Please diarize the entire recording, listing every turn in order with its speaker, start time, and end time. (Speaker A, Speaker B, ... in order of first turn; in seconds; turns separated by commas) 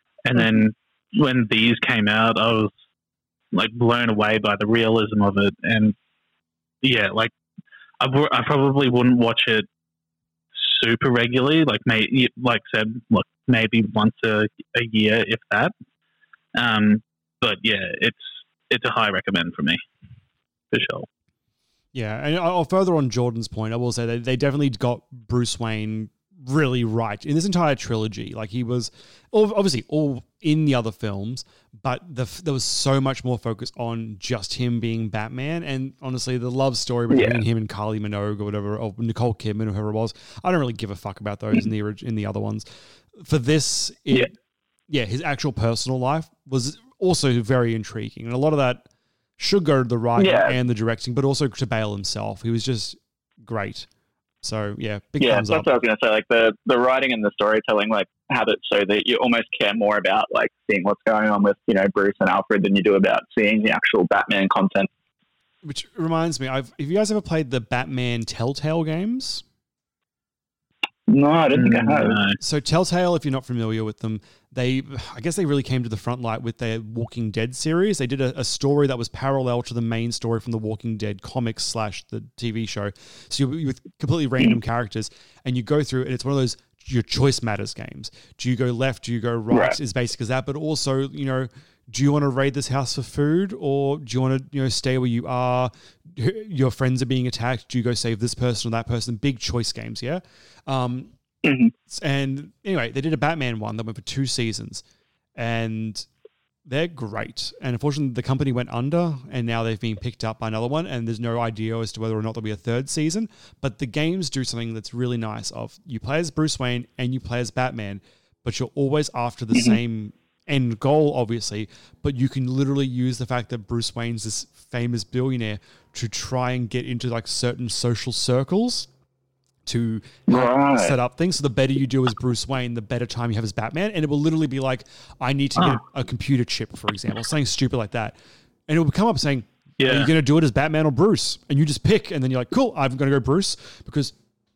Speaker A: 0.2-2.7, Speaker A: 3.5-5.9, Speaker A: 6.8-7.3, Speaker A: 8.0-9.7, Speaker A: 10.5-15.7, Speaker A: 16.6-19.8, Speaker A: 20.7-21.1, Speaker B: 21.9-44.3, Speaker C: 37.1-37.4, Speaker B: 44.9-48.9, Speaker B: 49.4-53.9, Speaker C: 50.2-50.5, Speaker B: 54.4-55.7, Speaker C: 55.2-64.9, Speaker B: 65.6-69.4, Speaker C: 71.1-72.2, Speaker A: 71.5-72.4, Speaker B: 72.4-101.1, Speaker C: 89.5-89.8, Speaker C: 101.4-101.7, Speaker B: 101.9-104.8, Speaker B: 105.4-106.0, Speaker B: 106.7-128.9, Speaker C: 119.5-119.8, Speaker B: 129.7-138.2, Speaker C: 130.3-130.9, Speaker B: 138.7-144.1, Speaker A: 139.8-140.1